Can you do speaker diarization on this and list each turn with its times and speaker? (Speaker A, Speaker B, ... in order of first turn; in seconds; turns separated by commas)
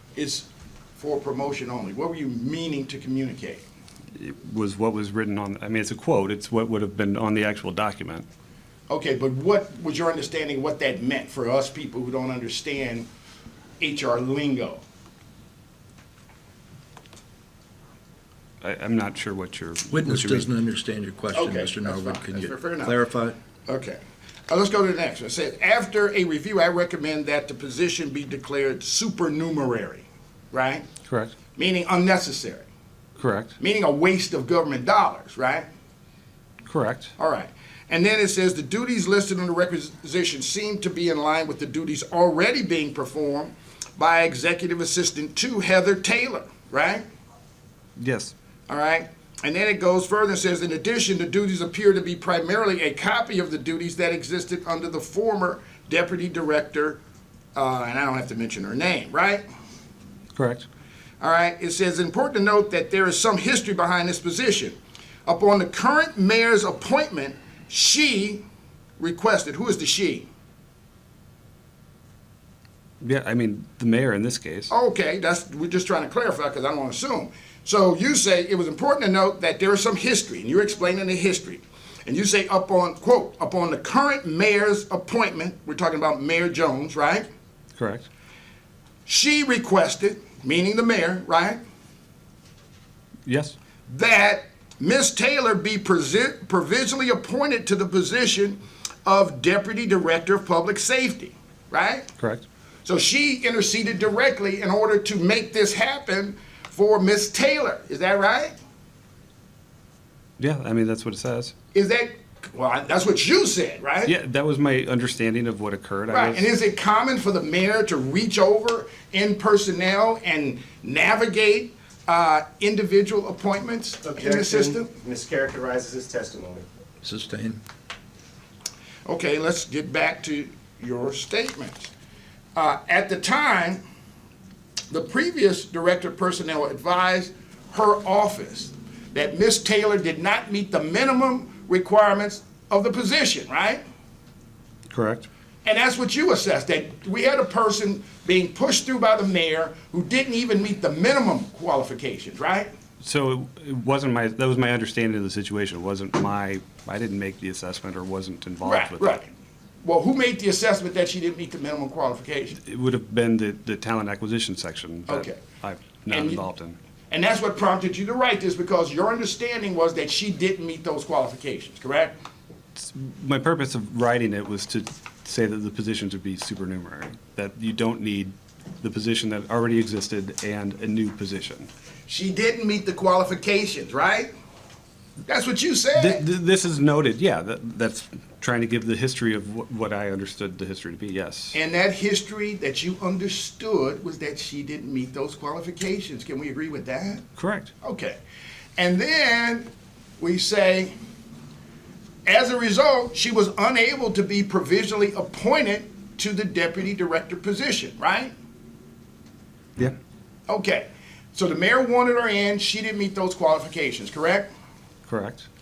Speaker A: 0.1-0.5, Speaker A: 1.0-3.6, Speaker B: 4.2-8.2, Speaker A: 8.9-13.1, Speaker A: 13.8-14.8, Speaker B: 18.6-20.5, Speaker C: 19.9-23.4, Speaker A: 21.4-22.9, Speaker A: 23.7-30.8, Speaker B: 31.0-31.3, Speaker A: 31.6-32.6, Speaker B: 33.2-33.5, Speaker A: 33.6-35.7, Speaker B: 36.7-37.1, Speaker A: 37.2-47.0, Speaker B: 48.0-48.3, Speaker A: 48.7-57.0, Speaker A: 57.5-59.4, Speaker B: 60.3-60.6, Speaker A: 61.2-68.4, Speaker A: 69.0-70.3, Speaker B: 73.0-74.7, Speaker A: 74.7-87.3, Speaker B: 87.8-88.1, Speaker A: 89.0-91.6, Speaker B: 93.2-93.5, Speaker A: 93.9-102.1, Speaker B: 102.2-102.4, Speaker A: 102.8-108.5, Speaker B: 110.4-111.5, Speaker A: 111.7-114.1, Speaker B: 114.0-116.5, Speaker A: 116.1-124.9, Speaker D: 124.0-126.6, Speaker C: 127.0-127.6, Speaker A: 129.0-131.9, Speaker A: 132.6-133.8, Speaker A: 134.9-143.8, Speaker B: 144.9-145.3, Speaker A: 145.6-152.7, Speaker B: 153.0-159.2, Speaker A: 158.7-159.2, Speaker A: 159.8-162.6, Speaker B: 162.6-166.8, Speaker A: 165.1-165.3, Speaker A: 166.1-166.4, Speaker A: 167.1-172.2, Speaker B: 172.8-181.7, Speaker A: 182.1-184.3, Speaker A: 185.3-186.2, Speaker B: 185.9-191.6, Speaker A: 191.5-197.2, Speaker B: 197.3-197.7, Speaker A: 197.8-198.2, Speaker A: 198.8-199.7, Speaker A: 200.2-200.9, Speaker A: 202.2-208.3, Speaker A: 210.5-214.5, Speaker B: 215.1-215.5